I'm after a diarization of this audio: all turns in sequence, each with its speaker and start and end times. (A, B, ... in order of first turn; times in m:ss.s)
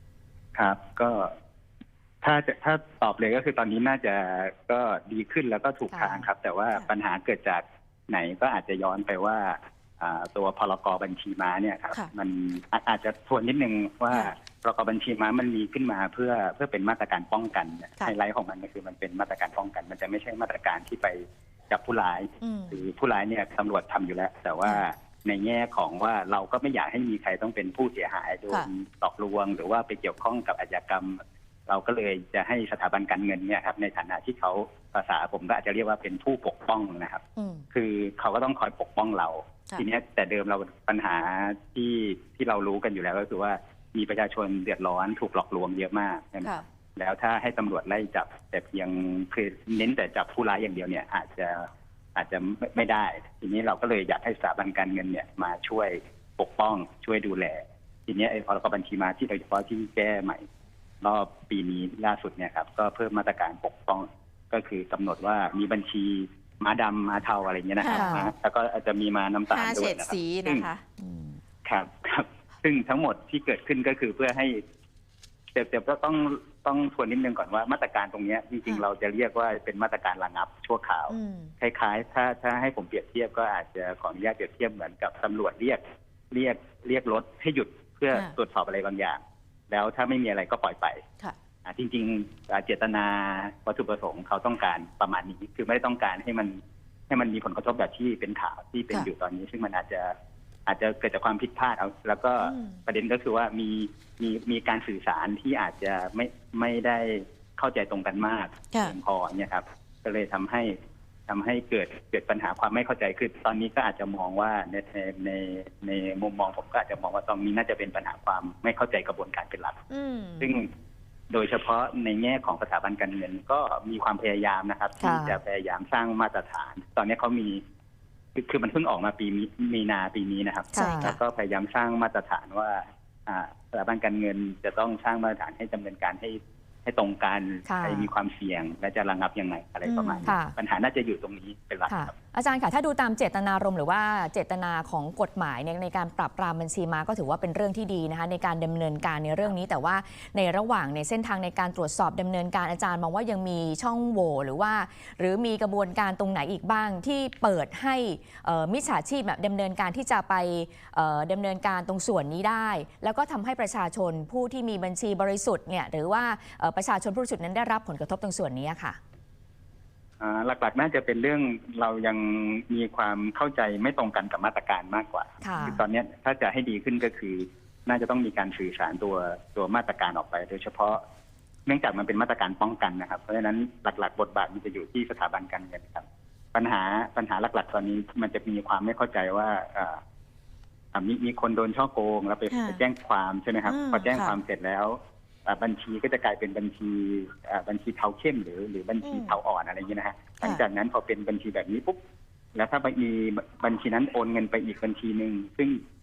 0:00.5-0:01.3 A
0:02.2-1:00.4 A
0:05.9-0:06.3 B
0:22.4-0:22.8 C
0:37.4-0:37.6 C
1:01.0-1:10.7 A
1:07.8-1:08.2 C
1:07.9-1:08.3 B
1:09.5-1:11.0 C
1:11.6-1:14.6 A
1:15.5-1:31.0 A
1:21.1-1:21.5 C
1:31.6-1:40.1 A
1:40.6-1:50.8 A
1:42.4-1:42.8 C
1:51.3-1:59.8 A
1:59.9-2:00.6 C
2:00.4-2:00.7 A
2:01.3-2:07.6 A
2:05.0-2:05.4 B
2:08.4-2:22.2 A
2:10.7-2:11.2 B
2:10.8-2:11.1 C
2:17.6-2:18.1 B
2:19.8-2:20.3 C
2:20.2-2:20.5 B
2:21.9-2:49.0 B
2:50.2-3:01.0 A
2:55.4-2:55.8 B
3:01.6-3:10.0 A
3:10.9-3:22.0 A
3:12.5-3:12.8 C
3:13.6-3:14.4 C
3:19.0-3:19.4 C
3:22.5-3:25.8 A